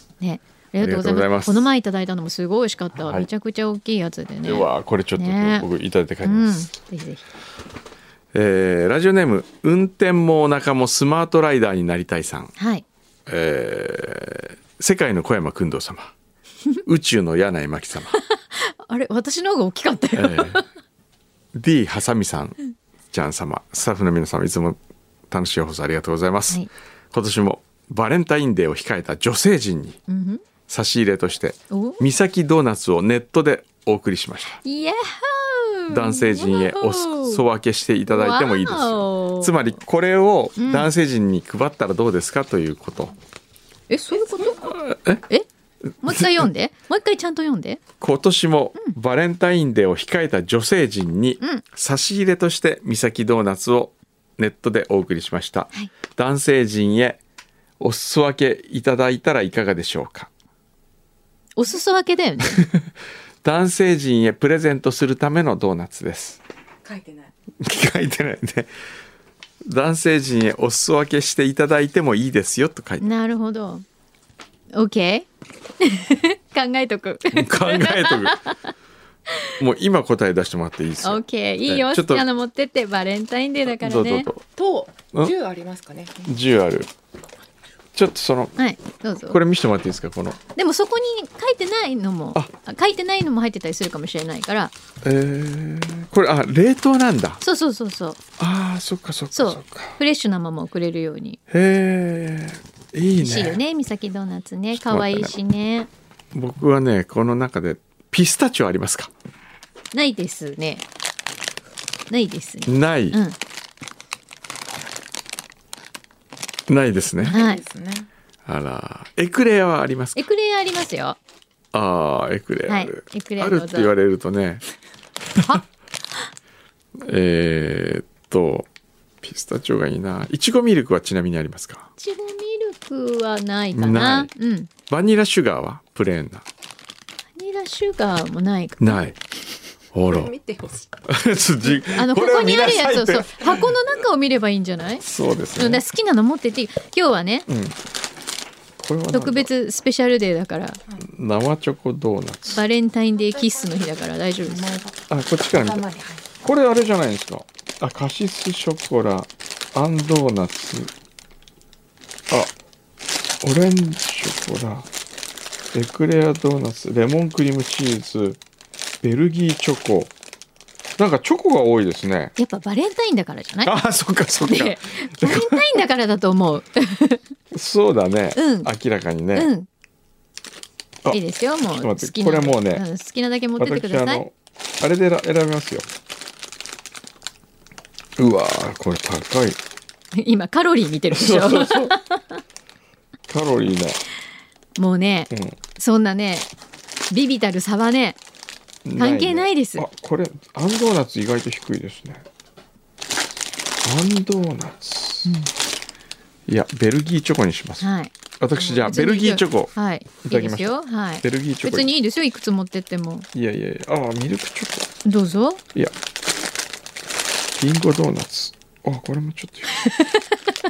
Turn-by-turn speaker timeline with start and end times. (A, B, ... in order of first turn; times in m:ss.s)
0:00.2-0:05.7 A
0:00.8-0:01.7 B
0:03.0-0:03.3 B
0:04.4-0:06.7 B
0:06.2-0:07.2 A
0:08.3-0:12.5 B
0:12.6-0:12.8 A
0:13.3-0:16.1 B
0:16.8-0:18.2 B
0:18.1-0:20.7 A
0:20.1-0:20.6 B
0:21.5-0:22.6 B
0:23.1-0:24.8 B
0:25.3-0:30.0 B
0:30.1-0:30.4 A
0:30.7-0:34.6 B
0:31.7-0:32.0 A
0:34.6-0:37.4 A
0:35.9-0:43.2 B
0:38.1-0:39.6 A
0:40.6-0:40.9 A
0:43.9-0:45.4 A
0:44.6-0:45.2 B
0:46.0-0:47.8 A
0:46.0-0:46.5 B
0:48.0-0:57.2 B
0:57.8-1:00.3 B
1:01.6-1:02.6 A
1:03.4-1:06.4 B
1:06.8-1:07.3 C
1:07.6-1:08.7 B
1:09.6-1:13.1 B
1:13.0-1:13.8 A
1:14.7-1:15.3 A
1:15.8-1:18.6 A
1:17.3-1:18.4 B
1:19.6-1:22.2 B
1:21.0-1:24.3 A
1:23.6-1:24.4 B
1:24.6-1:26.3 C
1:26.3-1:26.9 B
1:27.9-1:28.5 B
1:28.6-1:29.4 A
1:29.2-1:30.4 B
1:30.6-1:34.7 A
1:35.0-1:37.4 B
1:37.4-1:38.2 A
1:38.4-1:40.0 B
1:39.3-1:41.4 A
1:41.5-1:43.6 B
1:43.2-1:45.9 A
1:44.7-1:45.3 B
1:46.3-1:49.1 B
1:49.9-1:50.8 A
1:52.1-1:53.4 A
1:52.7-1:53.2 B
1:56.7-1:57.4 B
1:57.2-1:58.1 C
1:57.3-1:57.6 A
1:58.4-2:00.2 B
2:00.2-2:01.2 A
2:01.7-2:04.6 B
2:02.7-2:03.9 A
2:07.0-2:08.7 B
2:09.2-2:11.9 B
2:12.0-2:14.7 A
2:13.7-2:14.3 B
2:14.9-2:16.4 B
2:17.3-2:19.0 A
2:18.8-2:19.2 B
2:19.9-2:20.3 B
2:20.1-2:20.9 C
2:21.1-2:23.8 B
2:21.8-2:25.0 A
2:25.0-2:25.8 B
2:25.6-2:27.5 A
2:27.5-2:27.8 B
2:28.8-2:29.5 B
2:29.1-2:30.8 A
2:31.0-2:32.6 B
2:32.5-2:34.7 A
2:33.3-2:33.8 C
2:34.4-2:36.3 C
2:35.1-2:35.8 B
2:36.4-2:40.9 B
2:43.4-2:44.9 B
2:45.7-2:48.4 B
2:49.0-2:50.1 B
2:51.0-2:52.3 B
2:52.4-2:53.8 A
2:53.6-2:55.7 B
2:54.4-2:57.2 A
2:57.5-2:59.5 B
2:58.4-2:58.7 A
2:59.3-2:59.7 A
3:01.1-3:04.2 A
3:01.8-3:02.8 B
3:03.6-3:05.9 B
3:08.2-3:09.6 B
3:10.1-3:12.4 A
3:11.1-3:12.0 B
3:13.3-3:14.0 B
3:14.8-3:16.5 A
3:15.3-3:15.6 B
3:17.1-3:18.2 A
3:18.8-3:22.2 B
3:19.0-3:19.8 A
3:23.8-3:25.3 B
3:25.2-3:25.5 A
3:26.5-3:27.9 B
3:27.8-3:33.3 A
3:28.4-3:29.7 B
3:30.2-3:31.9 B
3:33.3-3:34.9 B
3:35.0-3:35.6 A
3:37.6-3:39.7 B
3:39.8-3:40.2 A